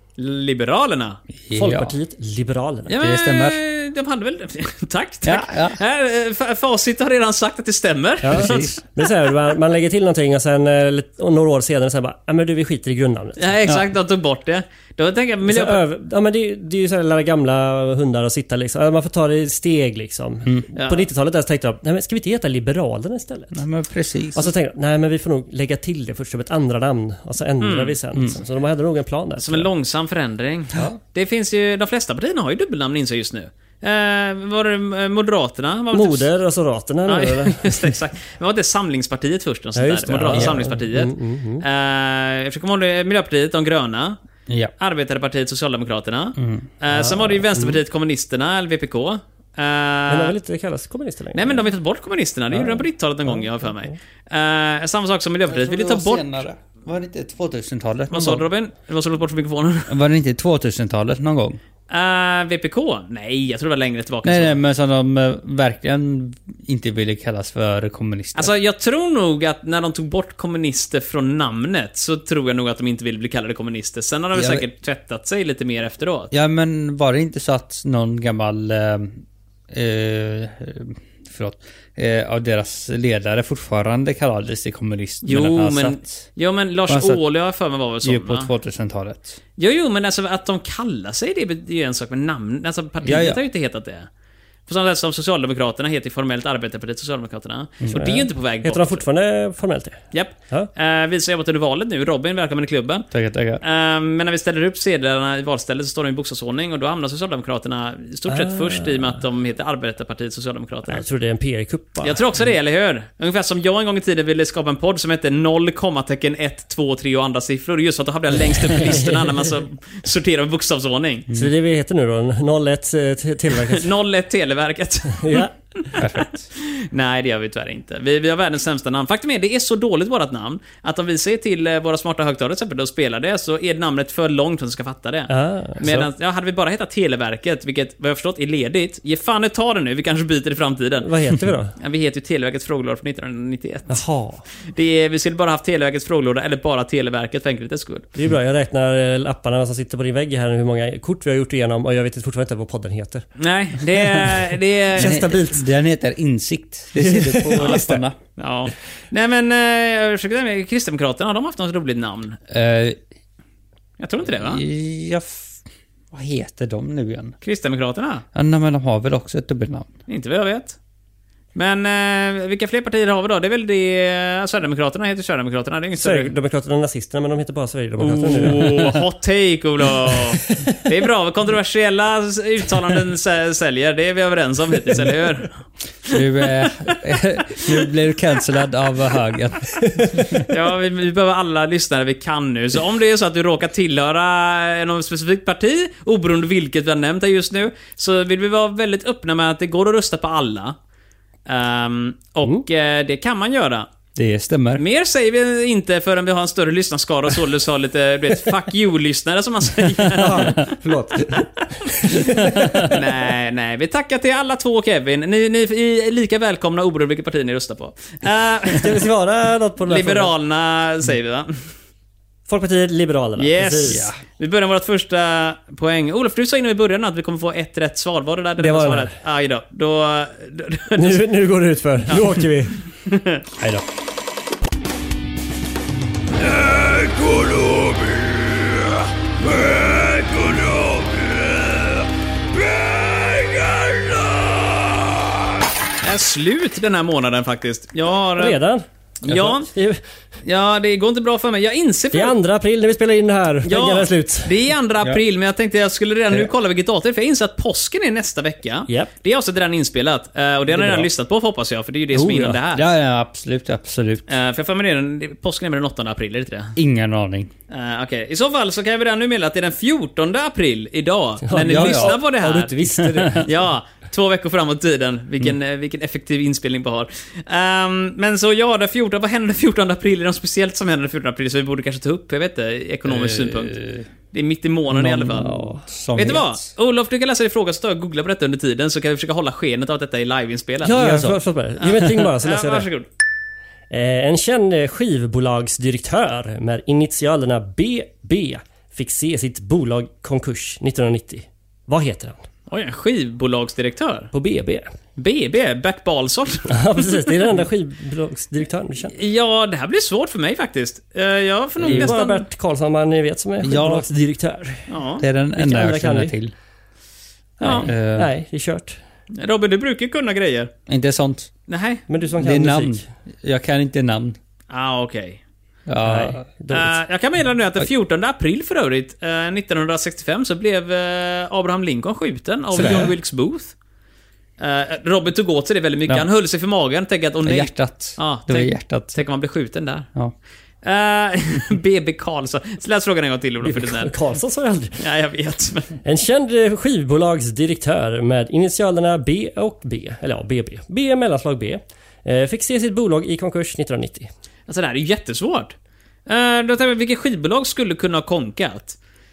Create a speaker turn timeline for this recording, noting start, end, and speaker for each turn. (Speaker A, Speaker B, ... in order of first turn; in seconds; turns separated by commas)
Speaker A: 0.2-1.2, Speaker B: 1.4-1.9, Speaker C: 1.5-2.9, Speaker A: 2.9-8.8, Speaker B: 3.0-3.6, Speaker B: 5.2-5.8, Speaker C: 8.2-13.4, Speaker B: 8.3-8.7, Speaker A: 13.4-15.8, Speaker C: 15.4-23.6, Speaker A: 20.8-21.0, Speaker B: 23.5-24.5, Speaker C: 24.3-29.7, Speaker A: 27.6-27.9, Speaker A: 29.4-36.3, Speaker C: 35.9-37.9, Speaker A: 37.1-44.2, Speaker C: 39.8-41.6, Speaker B: 40.1-40.6, Speaker A: 44.8-50.4, Speaker B: 46.4-46.7, Speaker C: 47.5-47.8, Speaker C: 50.1-51.6, Speaker A: 51.3-56.4, Speaker C: 52.5-53.7, Speaker B: 55.5-58.5, Speaker A: 58.1-60.0, Speaker B: 59.9-61.6, Speaker A: 61.9-64.6, Speaker B: 64.2-68.5, Speaker A: 68.3-76.3, Speaker B: 74.3-74.6, Speaker B: 76.3-86.3, Speaker A: 85.2-88.5, Speaker B: 86.9-87.2, Speaker B: 88.0-89.4, Speaker A: 89.6-94.1, Speaker B: 93.0-93.4, Speaker A: 94.7-99.0, Speaker C: 97.9-100.7, Speaker A: 100.1-103.1, Speaker B: 103.1-103.6, Speaker A: 103.6-111.0, Speaker C: 108.3-109.2, Speaker C: 110.9-112.2, Speaker A: 112.0-121.3, Speaker C: 118.6-119.6, Speaker C: 121.3-123.9, Speaker A: 123.7-141.1, Speaker C: 125.2-126.0, Speaker B: 126.0-126.4, Speaker C: 135.3-136.1, Speaker C: 141.0-141.7, Speaker A: 141.8-144.0, Speaker C: 143.9-144.4, Speaker A: 144.6-148.1, Speaker C: 148.1-153.2, Speaker A: 153.4-155.3, Speaker C: 153.9-155.6, Speaker B: 155.0-158.2, Speaker C: 157.0-158.0, Speaker A: 158.3-162.4, Speaker B: 162.5-163.0, Speaker A: 164.0-164.6, Speaker B: 164.2-165.6, Speaker B: 166.1-167.3, Speaker A: 167.4-168.2, Speaker B: 168.3-169.9, Speaker A: 170.1-170.8, Speaker A: 171.5-176.3, Speaker C: 176.0-178.9, Speaker A: 178.0-187.0, Speaker B: 178.3-178.9, Speaker B: 186.1-190.4, Speaker A: 190.4-200.8, Speaker A: 201.5-203.9, Speaker B: 204.1-204.8, Speaker A: 204.8-210.7, Speaker C: 210.1-212.9, Speaker B: 212.4-212.9, Speaker A: 212.8-219.0, Speaker C: 218.7-220.3, Speaker A: 219.9-221.7, Speaker C: 222.5-224.1, Speaker A: 223.4-231.2, Speaker B: 223.9-224.2, Speaker C: 228.6-229.2, Speaker C: 230.9-232.8, Speaker A: 232.1-232.4, Speaker A: 233.0-233.4, Speaker B: 233.6-233.8, Speaker A: 236.8-238.2, Speaker A: 240.4-240.8, Speaker B: 243.1-244.4, Speaker A: 246.0-248.6, Speaker C: 248.4-248.8, Speaker A: 249.2-249.7, Speaker B: 249.3-249.5, Speaker C: 249.7-250.0, Speaker A: 250.4-252.3, Speaker C: 252.1-254.7, Speaker A: 253.7-262.8, Speaker C: 260.7-261.1, Speaker C: 262.1-262.6, Speaker B: 262.7-264.3, Speaker A: 264.3-266.8, Speaker B: 266.8-267.5, Speaker A: 267.7-272.8, Speaker C: 271.4-273.5, Speaker B: 271.6-272.2, Speaker B: 273.0-273.4, Speaker A: 273.3-283.8, Speaker B: 283.1-284.1, Speaker A: 284.3-285.5, Speaker B: 284.9-286.7, Speaker C: 285.2-285.8, Speaker A: 286.1-291.2, Speaker C: 290.8-292.9, Speaker B: 291.0-291.4, Speaker A: 291.8-293.1, Speaker C: 293.9-302.4, Speaker A: 302.7-304.3, Speaker C: 304.3-304.9, Speaker A: 305.2-307.2, Speaker C: 306.7-309.1, Speaker A: 309.1-312.5, Speaker C: 311.8-314.9, Speaker B: 311.8-312.1, Speaker B: 313.6-314.1, Speaker A: 314.9-315.2, Speaker B: 315.2-316.5, Speaker C: 315.6-316.3, Speaker C: 317.6-319.0, Speaker A: 317.6-317.9, Speaker B: 317.7-318.3, Speaker A: 319.3-320.7, Speaker B: 320.9-321.5, Speaker A: 321.7-322.0, Speaker C: 322.1-323.0, Speaker B: 322.4-324.4, Speaker A: 324.7-325.4, Speaker B: 325.9-326.4, Speaker C: 326.0-327.0, Speaker A: 326.7-333.7, Speaker B: 332.7-333.1, Speaker A: 334.6-340.1, Speaker B: 337.4-339.2, Speaker A: 340.8-344.1, Speaker C: 343.6-345.0, Speaker A: 345.0-345.9, Speaker C: 346.0-354.3, Speaker A: 354.7-355.7, Speaker A: 356.3-359.0